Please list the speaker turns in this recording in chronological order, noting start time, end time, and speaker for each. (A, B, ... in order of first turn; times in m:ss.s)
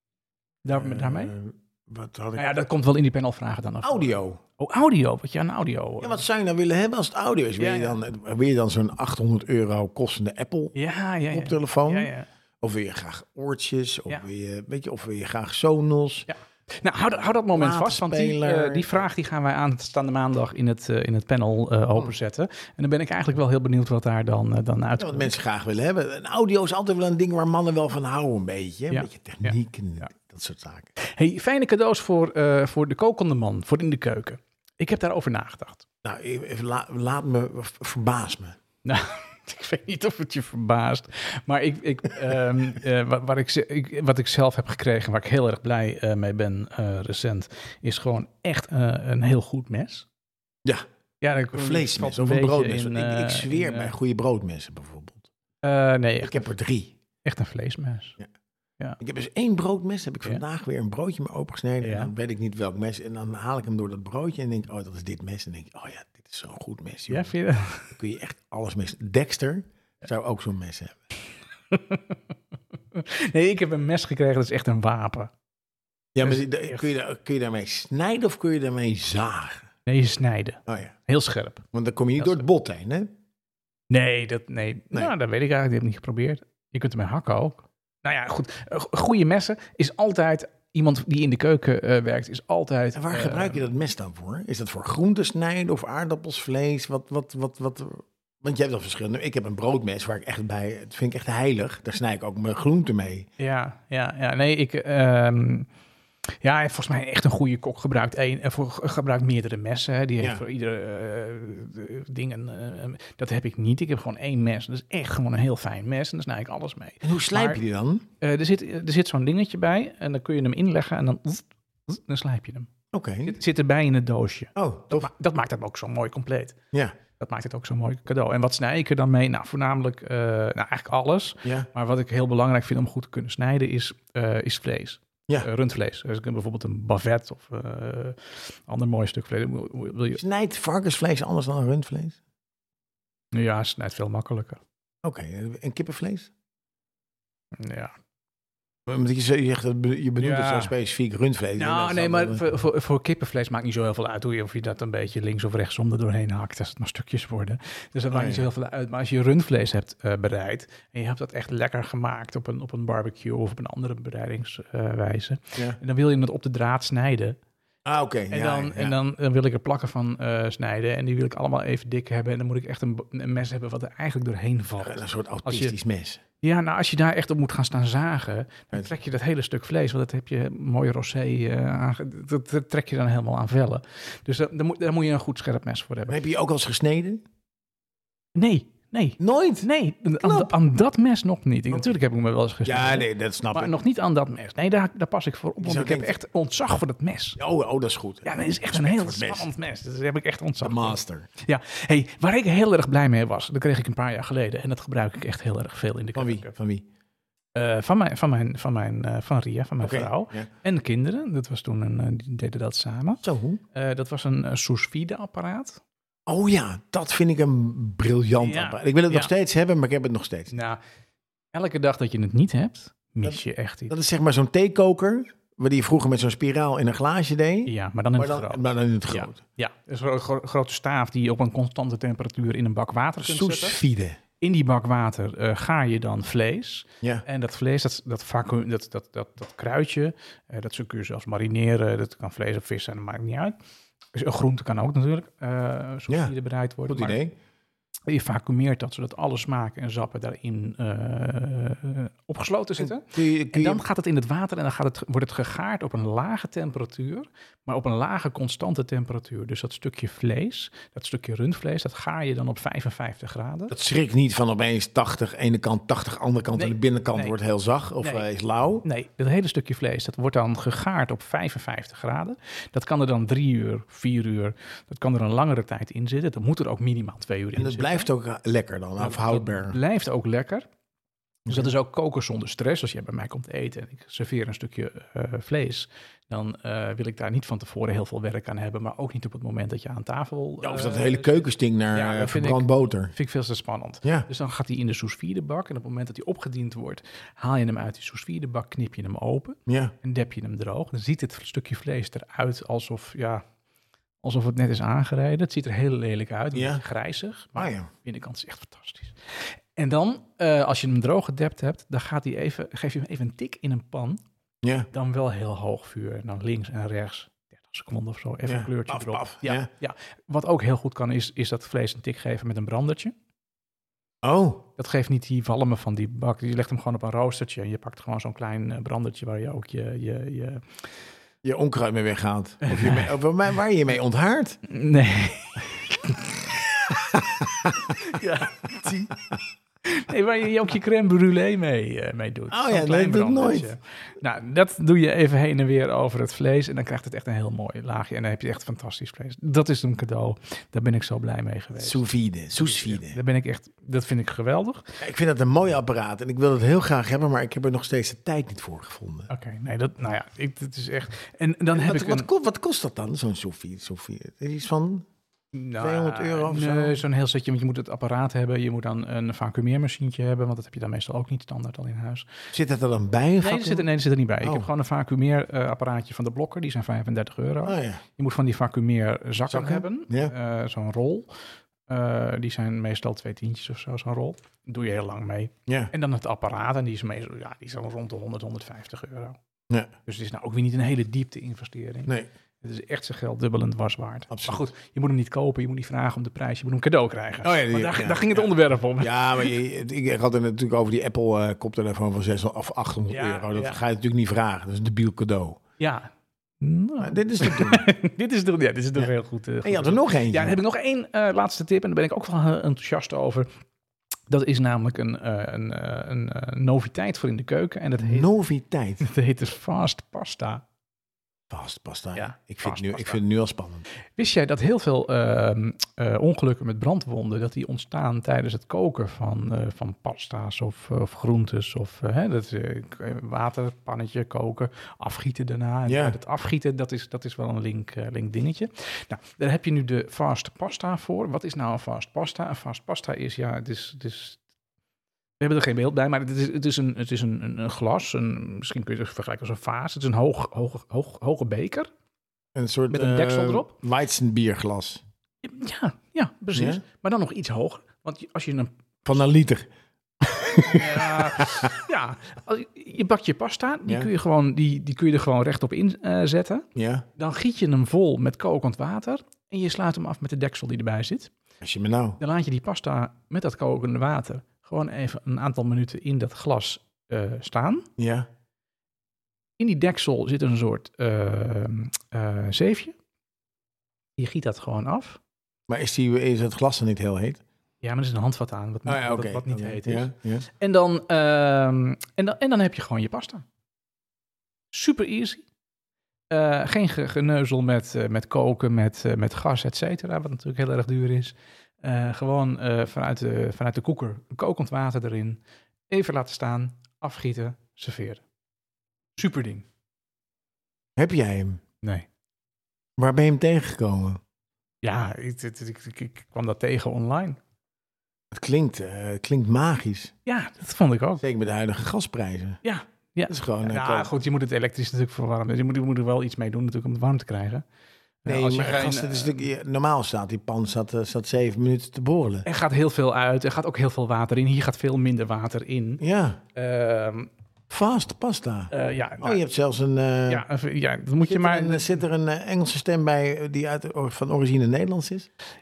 0:00.6-0:01.3 A
0:00.7-0:02.5 B
0:02.4-0:06.2 A
0:03.8-0:04.4 B
0:06.0-0:10.7 B
0:07.6-0:08.0 A
0:10.7-0:12.3 A
0:11.3-0:16.3 B
0:16.3-0:25.3 A
0:17.5-0:19.0 B
0:25.0-0:30.9 B
0:28.9-0:29.5 A
0:31.0-0:35.8 A
0:36.0-0:38.6 B
0:38.8-0:50.0 A
0:51.2-0:53.9 A
0:51.5-0:55.3 B
0:55.6-0:56.5 A
0:56.2-0:57.0 B
0:57.2-0:58.2 A
0:59.0-1:07.3 B
1:01.8-1:02.1 A
1:07.1-1:07.9 A
1:07.9-1:11.0 B
1:11.7-1:12.2 A
1:12.9-1:15.3 A
1:16.1-1:19.7 B
1:16.2-1:16.9 A
1:19.8-1:21.6 A
1:20.7-1:20.9 B
1:21.7-1:23.1 B
1:22.2-1:22.4 A
1:23.9-1:33.6 A
1:32.9-1:43.3 B
1:43.4-1:45.7 A
1:46.4-1:57.6 A
1:57.0-1:58.0 B
1:58.2-2:02.7 A
2:02.9-2:03.4 B
2:03.2-2:06.6 A
2:04.5-2:05.1 B
2:07.2-2:20.2 A
2:20.1-2:22.2 B
2:23.3-2:24.6 A
2:25.0-2:26.3 B
2:27.6-2:27.9 A
2:28.9-2:32.4 B
2:30.2-2:30.7 A
2:31.6-2:47.4 A
2:38.1-2:38.5 B
2:47.8-2:48.9 B
2:48.3-2:55.8 A
2:54.8-2:56.2 B
2:56.4-3:06.2 A
3:06.1-3:07.2 B
3:08.3-3:17.4 A
3:09.2-3:10.5 B
3:12.6-3:13.7 B
3:15.6-3:16.2 B
3:17.4-3:19.5 B
3:18.2-3:26.5 A
3:20.6-3:21.3 B
3:26.2-3:26.8 B
3:27.5-3:33.2 A
3:29.8-3:30.5 B
3:33.2-3:33.6 B
3:33.7-3:35.8 A
3:36.3-3:40.5 B
3:38.4-3:39.3 A
3:40.5-3:40.8 A
3:41.5-3:43.9 A
3:43.2-3:49.4 B
3:47.6-3:53.8 A
3:53.2-3:54.2 B
3:54.4-4:03.6 A
4:04.1-4:07.2 A
4:06.9-4:07.3 B
4:08.1-4:23.7 A
4:12.8-4:13.8 B
4:23.7-4:28.8 B
4:26.5-4:27.3 A
4:28.0-4:28.2 A
4:28.8-4:38.1 A
4:37.6-4:39.8 B
4:39.0-4:40.7 A
4:41.5-4:51.4 A
4:50.6-4:53.1 B
4:51.9-5:03.4 A
4:59.7-4:59.9 B
5:04.2-5:14.2 A
5:06.5-5:06.8 B
5:07.6-5:07.9 B
5:14.6-5:14.9 B
5:14.9-5:23.1 A
5:18.4-5:19.7 B
5:24.2-5:24.6 B
5:24.8-5:30.7 A
5:31.4-5:34.6 B
5:32.6-5:33.1 A
5:34.7-5:36.3 A
5:37.1-5:37.8 B
5:38.0-5:39.2 A
5:39.8-5:52.0 A
5:42.5-5:43.7 B
5:51.8-5:53.2 B
5:52.6-5:54.8 A
5:55.0-5:59.3 B
5:59.3-6:02.3 A
6:01.7-6:05.0 B
6:05.5-6:12.3 A
6:05.8-6:07.0 B
6:12.5-6:13.9 B
6:13.4-6:21.3 A
6:14.4-6:14.7 B
6:17.6-6:18.0 B
6:19.4-6:20.3 B
6:21.9-6:29.4 A
6:25.7-6:25.9 B
6:30.0-6:32.1 A
6:32.6-6:39.5 A
6:34.3-6:34.7 B
6:37.4-6:45.6 B
6:43.1-6:43.8 A
6:45.8-6:53.5 A
6:47.0-6:47.8 B
6:49.6-6:50.6 B
6:54.3-6:58.3 A
6:58.0-6:59.0 B
6:59.0-7:00.6 A
7:01.5-7:03.8 B
7:02.1-7:03.2 A
7:04.2-7:24.4 A
7:15.8-7:16.2 B
7:25.4-7:31.9 A
7:32.5-7:35.0 B
7:32.9-7:33.7 A
7:35.4-7:38.7 A
7:36.5-7:36.8 B
7:39.0-7:39.7 B
7:40.2-7:41.7 B
7:40.7-7:46.6 A
7:46.7-7:47.0 B
7:47.2-7:51.3 A
7:51.6-7:52.2 B
7:52.2-7:57.9 A
7:58.0-7:58.3 B
7:59.6-8:03.0 A
8:04.2-8:05.2 A
8:05.7-8:07.4 B
8:07.8-8:13.4 A
8:08.8-8:10.4 B
8:14.7-8:15.4 A
8:16.3-8:28.2 A
8:29.2-8:29.6 A
8:31.0-8:31.6 B
8:33.0-8:34.2 B
8:34.8-8:37.4 A
8:38.3-8:40.1 B
8:40.2-8:41.2 A
8:41.2-8:42.6 B
8:42.6-8:47.6 A
8:43.3-8:44.1 B
8:48.2-8:49.4 A
8:48.2-8:52.4 B
8:52.4-8:56.0 A
8:56.0-8:56.4 B
8:56.5-8:57.3 A
8:57.7-9:00.4 B
8:58.7-8:59.4 A
9:00.3-9:02.0 A
9:01.2-9:05.3 B